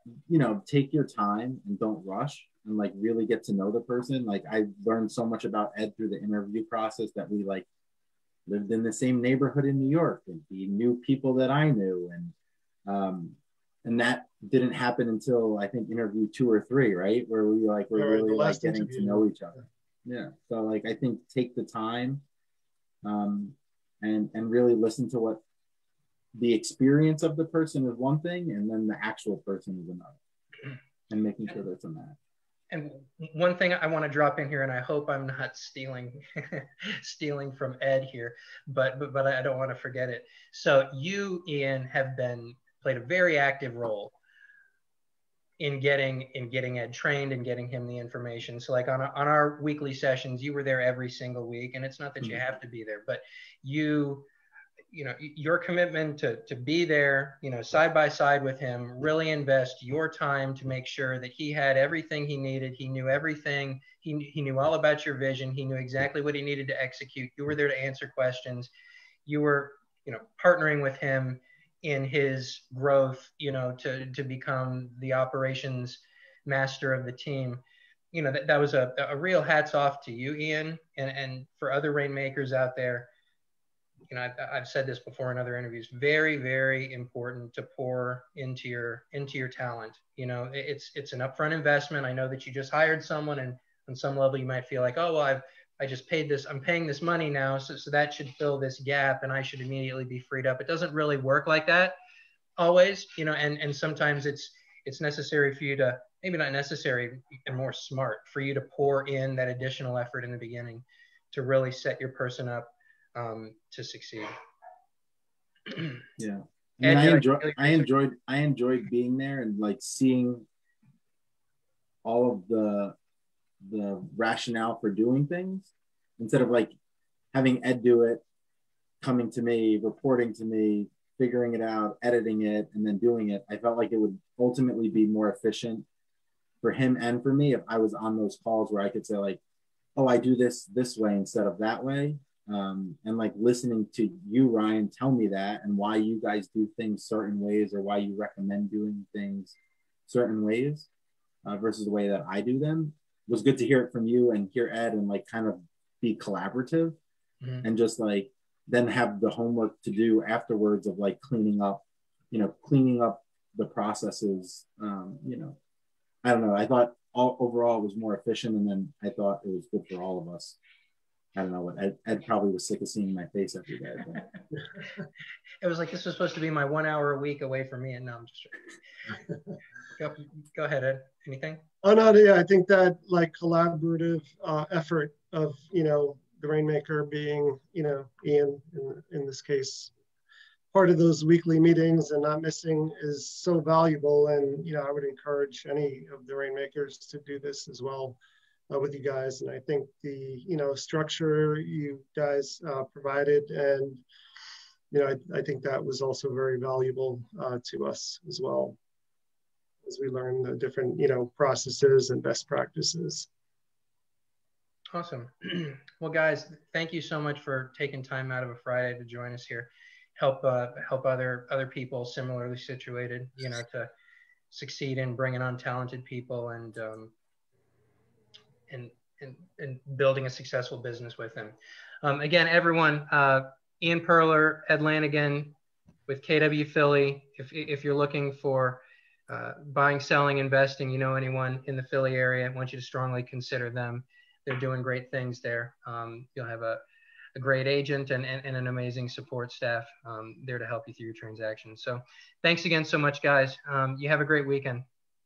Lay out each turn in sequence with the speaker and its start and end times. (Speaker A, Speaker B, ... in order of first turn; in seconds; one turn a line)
Speaker A: 0.3-7.7
Speaker A: 8.5-12.3
Speaker A: 12.9-22.2
Speaker B: 17.9-19.6
Speaker A: 23.0-25.4
Speaker A: 26.4-30.2
Speaker A: 31.1-32.1
Speaker C: 32.7-44.1
Speaker C: 45.6-54.3
Speaker C: 54.9-68.7
Speaker C: 69.2-77.6
Speaker C: 78.1-83.1
Speaker C: 84.1-102.0
Speaker C: 102.6-114.3
Speaker A: 116.2-120.5
Speaker C: 116.8-117.9
Speaker A: 122.0-123.0
Speaker A: 123.6-126.7
Speaker A: 127.3-128.2
Speaker A: 129.0-135.9
Speaker A: 136.6-139.4
Speaker A: 139.9-149.6
Speaker A: 150.1-150.9
Speaker A: 151.4-157.0
Speaker A: 157.6-165.6
Speaker A: 166.2-170.6
Speaker A: 171.3-174.3
Speaker C: 175.6-178.6
Speaker C: 180.0-181.6
Speaker B: 181.8-189.9
Speaker B: 190.7-198.2
Speaker B: 198.7-204.0
Speaker B: 204.9-208.8
Speaker B: 209.8-213.3
Speaker C: 214.9-223.9
Speaker C: 224.5-227.1
Speaker C: 228.7-235.5
Speaker C: 236.1-246.8
Speaker C: 247.3-254.8